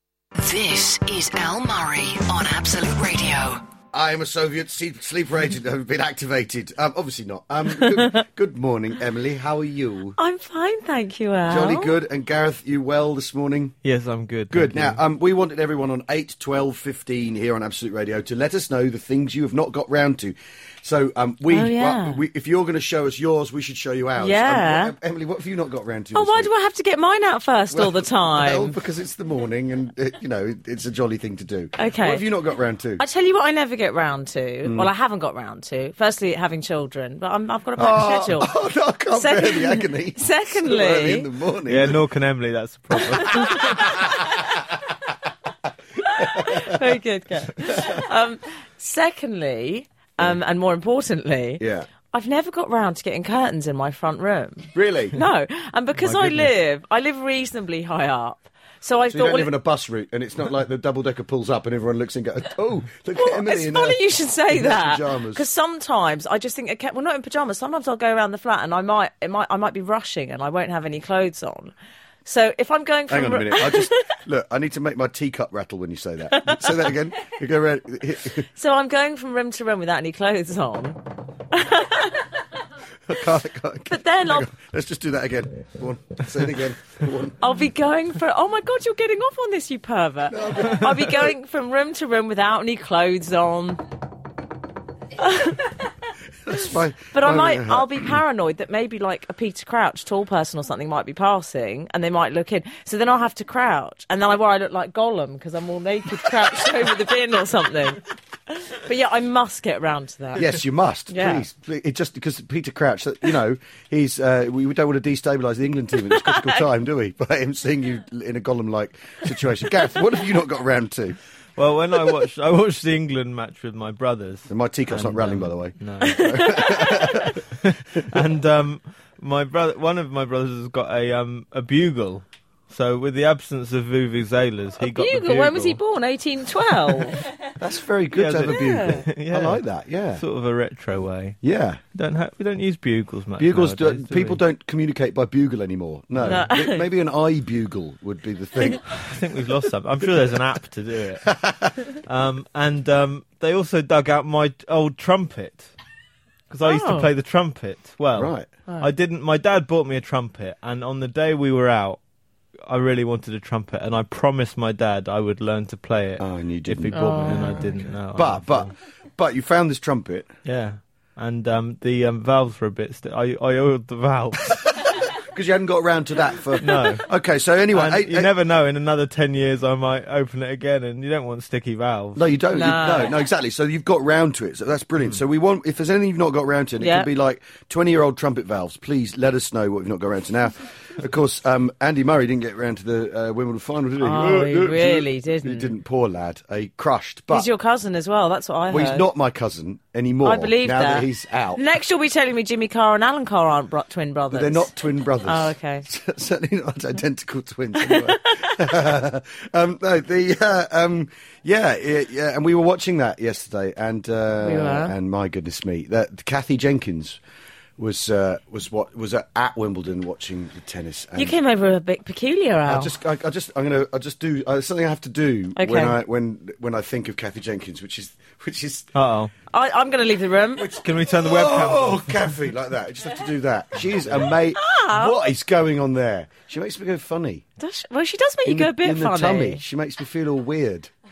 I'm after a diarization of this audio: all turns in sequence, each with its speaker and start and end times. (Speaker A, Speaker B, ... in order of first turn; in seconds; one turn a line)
Speaker A: 0.4-3.6
Speaker B: 3.9-10.2
Speaker C: 10.2-11.9
Speaker B: 11.5-13.8
Speaker D: 13.8-15.0
Speaker B: 14.5-26.5
Speaker C: 21.5-22.2
Speaker C: 24.2-24.9
Speaker C: 26.1-28.8
Speaker B: 27.7-33.0
Speaker C: 31.8-32.2
Speaker C: 33.0-38.5
Speaker B: 34.6-34.9
Speaker B: 37.8-42.0
Speaker C: 39.1-41.3
Speaker D: 41.6-44.0
Speaker B: 43.1-44.5
Speaker C: 46.1-59.5
Speaker B: 46.2-46.8
Speaker B: 51.6-51.9
Speaker B: 54.7-55.2
Speaker D: 56.0-56.5
Speaker B: 59.1-65.4
Speaker C: 63.1-71.7
Speaker C: 72.2-74.1
Speaker B: 73.1-78.5
Speaker C: 76.4-76.7
Speaker C: 78.5-82.2
Speaker B: 83.1-87.4
Speaker C: 83.9-84.5
Speaker C: 87.4-93.8
Speaker B: 90.3-91.3
Speaker C: 95.2-95.9
Speaker B: 96.5-97.9
Speaker C: 97.1-110.6
Speaker B: 110.3-121.2
Speaker C: 111.1-111.4
Speaker C: 116.2-116.5
Speaker D: 121.6-126.9
Speaker B: 124.5-127.3
Speaker C: 126.0-127.3
Speaker D: 127.6-135.8
Speaker C: 134.8-137.2
Speaker B: 137.6-140.2
Speaker D: 138.1-139.6
Speaker C: 138.6-138.9
Speaker D: 140.2-141.4
Speaker B: 141.4-141.8
Speaker D: 141.9-144.4
Speaker B: 143.4-148.8
Speaker D: 146.2-146.4
Speaker C: 146.2-146.8
Speaker D: 148.8-155.7
Speaker D: 156.5-162.0
Speaker C: 156.6-157.1
Speaker B: 158.2-158.5
Speaker D: 162.7-168.7
Speaker B: 166.2-170.3
Speaker C: 166.9-167.6
Speaker D: 170.4-174.6
Speaker B: 175.1-178.3
Speaker D: 176.6-177.1
Speaker D: 177.7-182.2
Speaker B: 182.1-197.5
Speaker C: 182.5-183.2
Speaker C: 186.8-187.1
Speaker C: 194.0-195.7
Speaker C: 197.3-199.0
Speaker B: 198.7-201.6
Speaker C: 200.2-204.7
Speaker B: 204.3-217.2
Speaker C: 205.2-205.8
Speaker C: 214.4-214.9
Speaker B: 217.8-221.4
Speaker C: 221.2-222.9
Speaker B: 222.7-228.9
Speaker C: 225.6-225.9
Speaker D: 228.9-229.3
Speaker C: 229.5-230.7
Speaker B: 230.6-237.4
Speaker D: 230.7-232.3
Speaker C: 234.5-235.3
Speaker C: 237.6-239.6
Speaker B: 238.4-240.9